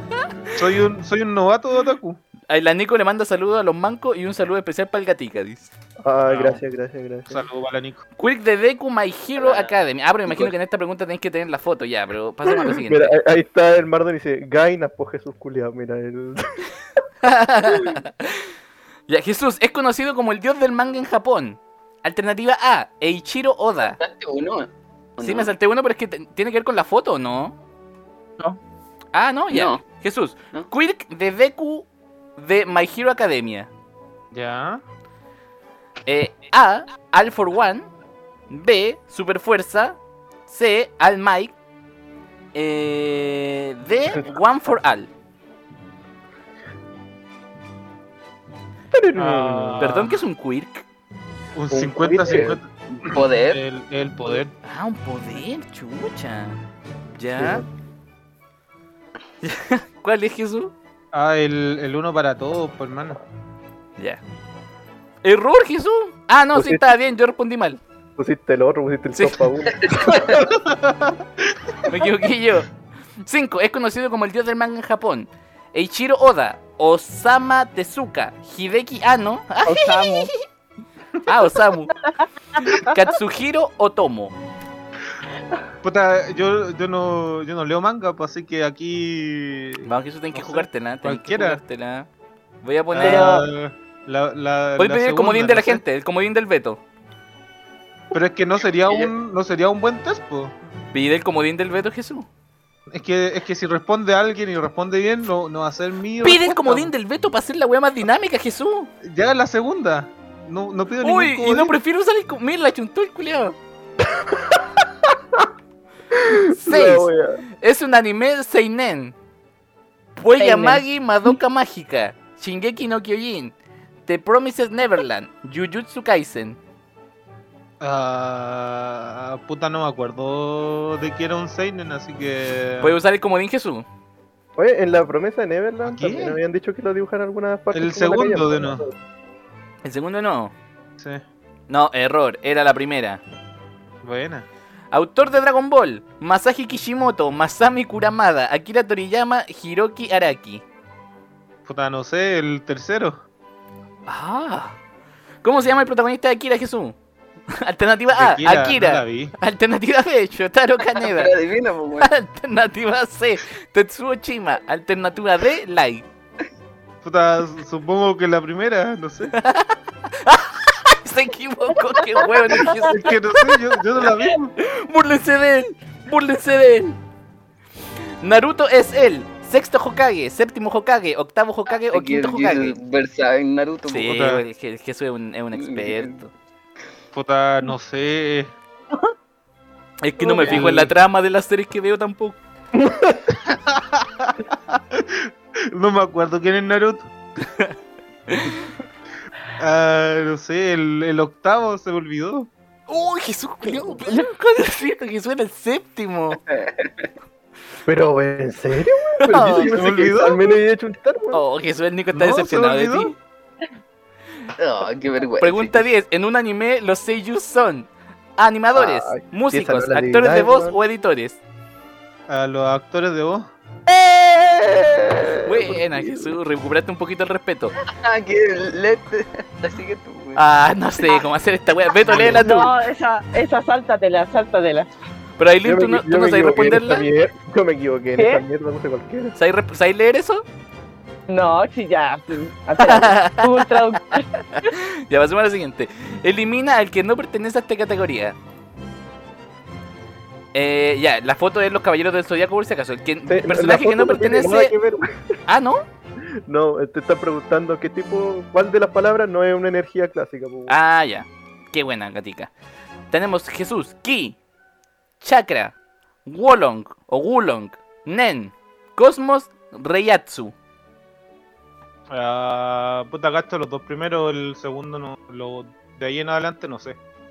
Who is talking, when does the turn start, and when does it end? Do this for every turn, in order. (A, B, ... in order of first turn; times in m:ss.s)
0:00.6-0:02.2 A
0:02.5-0:05.7 B
0:06.0-0:07.4 C
0:06.3-0:06.6 A
0:07.3-0:08.0 A
0:08.2-0:13.2 B
0:09.4-0:09.7 D
0:12.5-0:16.7 C
0:17.2-0:18.4 B
0:17.7-0:18.0 C
0:19.1-0:24.0 B
0:23.8-0:25.5 D
0:25.2-0:27.6 B
0:29.1-0:33.7 B
0:29.5-0:29.8 D
0:34.3-0:34.8 A
0:36.1-0:37.9 B
0:38.5-0:41.6 B
0:42.5-0:45.1 B
0:48.9-0:50.0 C
0:49.2-0:50.2 A
0:49.8-0:50.8 B
0:51.6-0:54.5 A
0:51.7-0:52.6 C
0:52.9-0:53.6 D
0:54.6-0:56.6 B
0:57.2-0:57.6 B
0:57.4-0:57.7 C
0:59.4-1:00.7 B
1:01.1-1:03.2 A
1:04.0-1:04.2 B
1:05.2-1:07.8 B
1:06.6-1:06.8 C
1:08.2-1:10.6 C
1:09.1-1:09.4 B
1:10.6-1:11.2 A
1:11.8-1:20.4 B
1:19.6-1:20.3 E
1:21.3-1:22.0 B
1:22.6-1:24.4 B
1:25.8-1:31.6 A
1:29.8-1:32.1 B
1:32.6-1:33.5 B
1:32.9-1:35.8 A
1:34.8-1:36.8 B
1:38.1-1:40.6 A
1:38.9-1:39.1 D
1:40.9-1:42.3 B
1:42.9-1:46.9 A
1:46.2-1:48.9 B
1:49.0-1:51.8 A
1:51.0-1:53.6 B
1:54.1-1:55.5 C
1:56.1-1:57.4 C
1:56.5-1:57.1 B
1:57.6-1:59.2 B
2:00.2-2:03.5 B
2:00.4-2:00.8 E
2:04.1-2:06.6 B
2:07.8-2:13.0 A
2:12.8-2:13.9 B
2:14.6-2:19.0 C
2:15.8-2:16.4 A
2:17.7-2:18.9 A
2:19.8-2:20.5 B
2:21.0-2:21.2 A
2:21.7-2:23.2 B
2:24.0-2:24.5 A
2:24.9-2:30.6 B
2:31.7-2:33.2 A
2:34.1-2:34.8 B
2:35.4-2:37.0 B
2:37.5-2:41.3 B
2:38.2-2:39.4 A
2:41.0-2:42.1 D
2:42.0-2:46.1 B
2:47.0-2:49.4 A
2:49.4-2:53.1 B
2:52.0-2:52.9 E
2:52.7-2:54.6 A
2:54.6-2:57.0 B
2:58.2-3:02.8 B
3:01.8-3:04.1 D
3:03.9-3:06.3 B
3:04.1-3:04.4 A
3:05.6-3:06.2 D
3:07.1-3:08.5 A
3:10.0-3:12.4 B
3:10.4-3:10.9 A
3:12.8-3:13.2 C
3:13.5-3:17.1 A
3:18.3-3:18.7 B
3:19.6-3:22.5 A
3:22.9-3:26.4 B
3:24.0-3:24.3 E
3:26.3-3:27.1 D
3:27.9-3:31.4 C
3:29.2-3:29.8 B
3:29.3-3:30.4 A
3:31.3-3:33.2 B
3:32.1-3:33.1 A
3:34.6-3:35.8 D
3:35.4-3:41.4 B
3:38.7-3:40.8 C
3:42.3-3:43.5 A
3:44.0-3:47.8 B
3:44.6-3:46.3 C
3:47.9-3:50.4 D
3:50.4-3:52.7 B
3:52.1-3:52.4 C
3:52.2-3:54.9 E
3:55.4-3:57.1 B
3:55.6-3:59.4 C
3:58.2-3:58.4 E
3:59.4-4:00.4 B
4:01.3-4:04.7 E
4:02.8-4:08.4 B
4:10.5-4:14.7 B
4:13.3-4:15.4 C
4:15.5-4:15.8 B
4:16.5-4:20.8 C
4:20.7-4:22.5 B
4:23.1-4:24.4 B
4:25.2-4:30.6 B
4:32.1-4:37.0 A